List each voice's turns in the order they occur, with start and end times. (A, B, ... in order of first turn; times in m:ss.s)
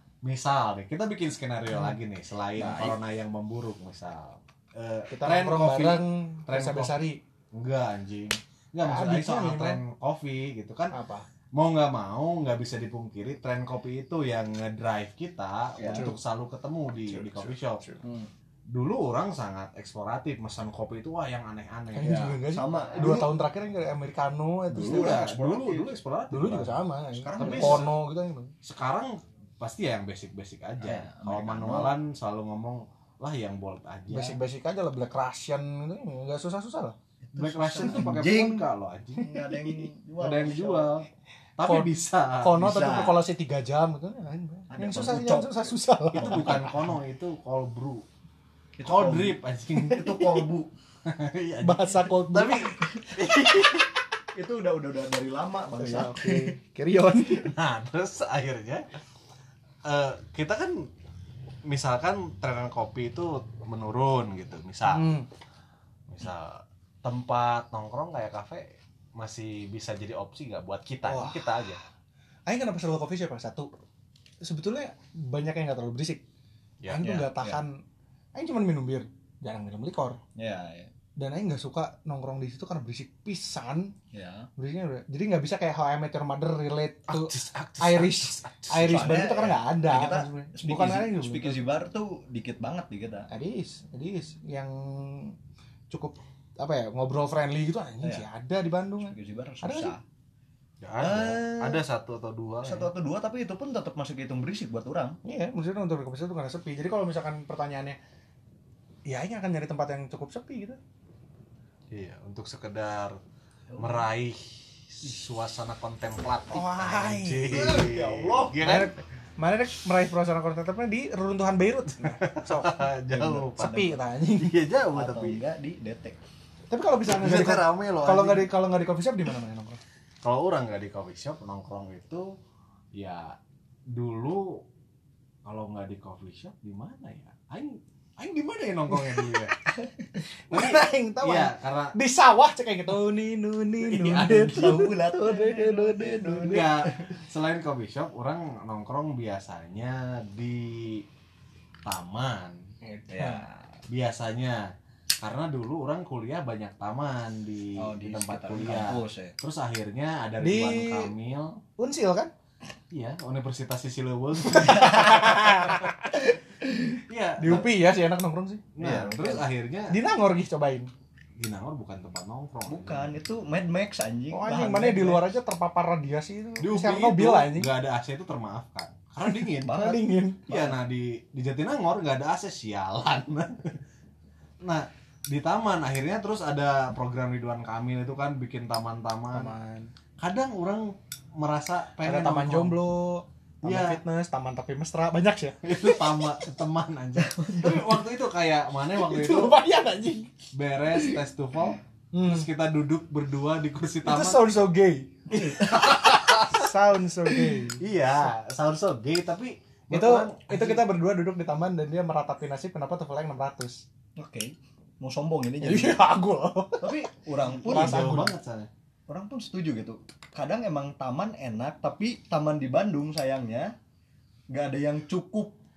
0:00.2-0:06.9 A
0:02.6-0:03.0 B
0:05.1-0:07.2 C
0:07.5-0:10.9 A
0:08.8-0:09.8 C
0:10.9-0:11.2 C
0:11.5-0:17.8 A
0:15.8-0:16.1 B
0:15.9-0:16.2 C
0:17.0-0:18.0 C
0:18.0-0:18.3 B
0:18.7-0:22.4 A
0:21.9-0:25.3 C
0:22.1-0:23.4 B
0:24.7-0:26.0 B
0:24.8-0:26.7 A
0:26.3-0:28.5 C
0:27.1-0:27.9 B
0:27.4-0:27.9 A
0:28.6-0:34.4 A
0:30.8-0:32.0 B
0:34.1-0:37.0 C
0:37.2-0:38.7 B
0:37.4-0:39.3 A
0:39.2-0:40.9 B
0:40.2-0:43.1 A
0:41.6-0:41.9 C
0:42.4-0:46.8 C
0:42.6-0:43.2 B
0:44.7-0:46.4 B
0:46.1-0:48.0 A
0:48.8-0:50.7 B
0:48.8-0:50.5 A
0:51.0-0:53.9 A
0:51.6-0:53.8 C
0:54.4-0:56.6 B
0:55.8-0:57.5 C
0:57.4-0:58.9 A
0:59.9-1:00.9 A
1:01.7-1:05.1 A
1:04.9-1:05.3 C
1:06.1-1:11.8 A
1:11.0-1:11.6 C
1:12.5-1:13.7 C
1:14.4-1:16.2 C
1:16.8-1:17.1 A
1:16.9-1:17.8 C
1:17.0-1:17.6 B
1:18.4-1:20.2 C
1:20.4-1:20.9 B
1:21.2-1:23.9 C
1:24.1-1:24.5 B
1:24.6-1:31.6 C
1:27.1-1:29.2 A
1:28.8-1:33.3 B
1:33.3-1:35.4 C
1:35.9-1:39.9 C
1:38.0-1:38.3 B
1:39.0-1:40.0 B
1:40.8-1:42.9 A
1:41.0-1:41.8 B
1:42.6-1:45.2 B
1:45.2-1:48.0 C
1:49.1-1:50.8 C
1:51.9-1:53.2 A
1:53.7-1:54.0 B
1:53.8-1:59.0 A
1:56.5-1:57.8 C
1:57.5-1:58.6 B
1:58.6-2:02.9 C
2:02.0-2:05.4 A
2:03.1-2:03.5 B
2:03.5-2:04.6 C
2:04.9-2:06.2 B
2:06.7-2:09.8 C
2:07.1-2:08.5 A
2:10.2-2:12.2 A
2:13.0-2:13.3 A
2:13.9-2:14.6 A
2:15.4-2:19.6 A
2:18.9-2:19.4 C
2:19.7-2:20.1 B
2:20.5-2:26.7 C
2:20.5-2:22.0 A
2:23.8-2:24.6 A
2:24.4-2:27.2 B
2:26.5-2:31.1 A
2:31.8-2:32.6 A
2:32.8-2:33.4 C
2:33.1-2:33.8 B
2:33.9-2:34.7 A
2:35.2-2:41.6 A
2:37.8-2:39.4 B
2:40.4-2:41.1 C
2:41.8-2:42.3 C
2:42.9-2:45.9 A
2:44.4-2:45.4 B
2:44.5-2:46.3 C
2:47.1-2:47.7 A
2:47.4-2:48.8 C
2:48.8-2:50.0 A
2:48.8-2:49.4 B
2:49.9-2:50.9 C
2:51.4-2:53.1 A
2:52.7-2:55.3 B
2:54.3-2:57.7 C
2:56.6-2:59.8 A
2:59.3-3:00.5 C
2:59.6-3:00.8 B
3:00.5-3:03.8 A
3:04.6-3:09.5 A
3:09.3-3:09.9 C
3:10.2-3:12.8 A
3:12.0-3:16.4 C
3:13.6-3:14.0 A
3:15.6-3:19.6 A
3:17.2-3:18.0 B
3:19.0-3:20.3 C
3:20.5-3:24.4 A
3:22.1-3:22.5 C
3:24.1-3:27.8 C
3:25.3-3:26.7 A
3:27.3-3:30.8 A
3:29.9-3:33.8 C
3:34.2-3:36.0 B
3:35.6-3:38.4 C
3:36.8-3:38.1 B
3:37.6-3:38.7 A
3:39.1-3:43.7 B
3:44.5-3:45.6 B